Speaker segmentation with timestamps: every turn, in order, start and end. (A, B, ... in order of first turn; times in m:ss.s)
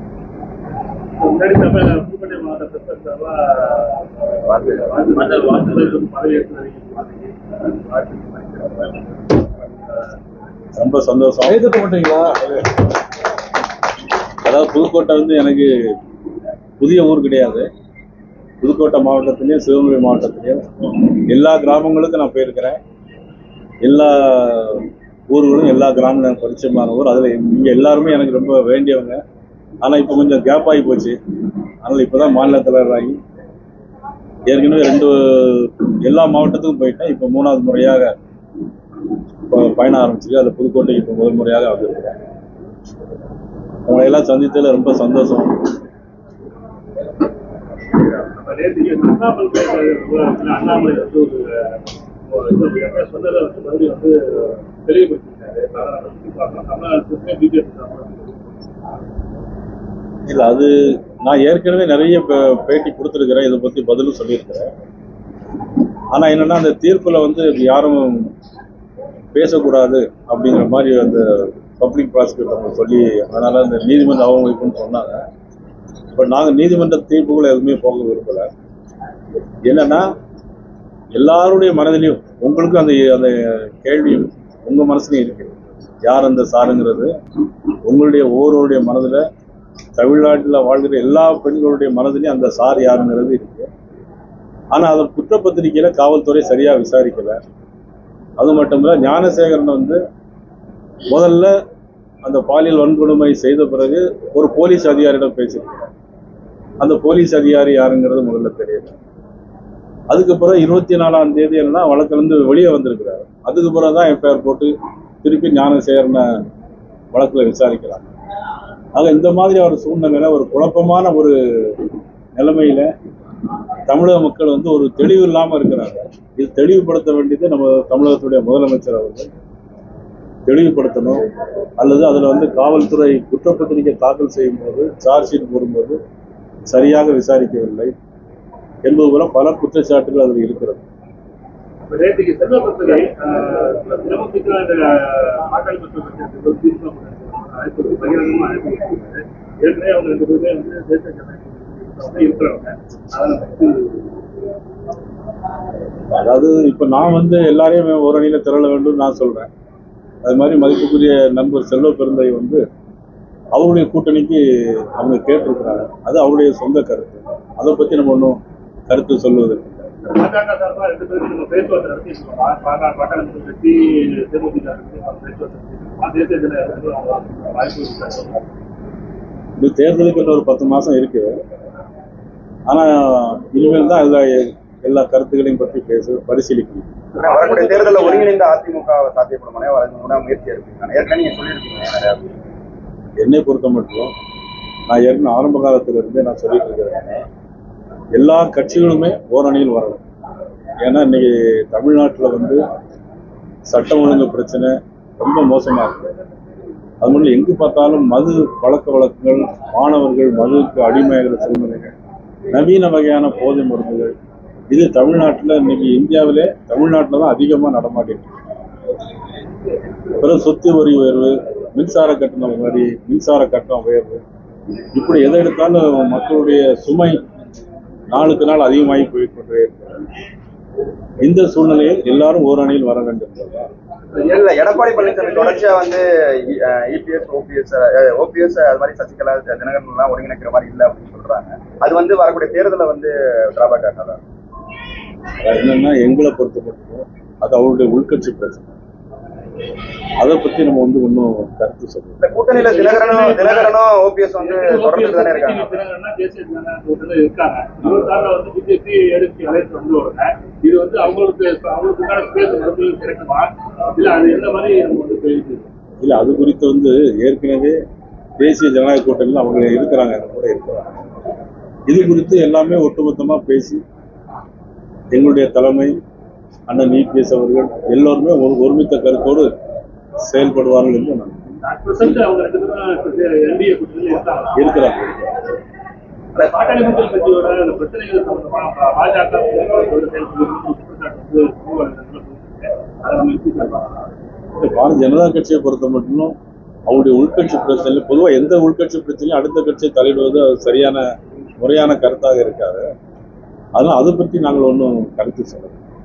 0:01.2-0:04.1 A
0:04.6-0:10.1 A
0:10.8-0:12.6 B
0:14.4-0:15.7 B
0:16.8-0:17.7 B
0:18.6-0:22.8 B
0:23.8-0:29.2 B
0:29.8-0:31.2 B
0:31.8-0:33.2 B
0:34.5-0:38.1 B
0:39.5-0:42.2 B
0:43.8-0:45.6 B
0:48.0-0:58.5 A
1:00.2-1:04.7 B
1:06.1-1:08.3 B
1:09.3-1:15.2 B
1:16.1-1:18.5 B
1:19.6-1:20.1 B
1:21.1-1:27.1 B
1:27.8-1:29.2 B
1:30.0-1:33.7 B
1:34.7-1:37.4 B
1:38.4-1:40.0 B
1:41.1-1:41.5 B
1:42.2-1:45.8 B
1:46.8-1:48.9 B
1:50.1-1:54.7 B
1:55.2-1:56.3 B
1:57.1-1:58.1 B
1:58.9-2:02.9 B
2:03.9-2:09.3 B
2:10.4-2:11.2 B
2:11.8-2:16.0 B
2:16.7-2:17.9 B
2:18.8-2:20.8 B
2:21.8-2:34.1 A
2:36.1-2:39.5 B
2:40.2-2:42.6 B
2:43.5-2:49.9 B
2:50.1-2:58.4 A
2:59.6-3:01.4 B
3:02.7-3:06.9 B
3:07.2-3:12.2 C
3:07.2-3:08.2 A
3:13.2-3:14.1 B
3:14.9-3:17.2 B
3:18.2-3:20.0 B
3:20.8-3:22.6 B
3:23.6-3:26.1 B
3:27.0-3:31.9 B
3:32.5-3:34.1 B
3:34.7-3:38.3 B
3:40.2-3:44.2 B
3:44.9-3:47.2 B
3:48.1-3:49.9 B
3:51.2-3:53.7 B
3:54.2-4:04.2 C
4:05.4-4:08.7 B
4:10.2-4:12.2 B
4:12.2-4:15.8 C
4:12.5-4:13.8 A
4:14.4-4:25.7 A
4:26.0-4:27.8 B
4:28.4-4:30.9 B
4:31.9-4:33.8 B
4:35.1-4:36.0 B
4:36.7-4:39.5 B
4:40.2-4:41.5 B
4:41.6-4:44.6 A
4:44.5-4:45.3 B
4:46.3-4:53.9 A
4:54.6-4:56.4 B
4:56.9-5:01.1 B
5:01.6-5:02.8 B
5:03.8-5:05.8 B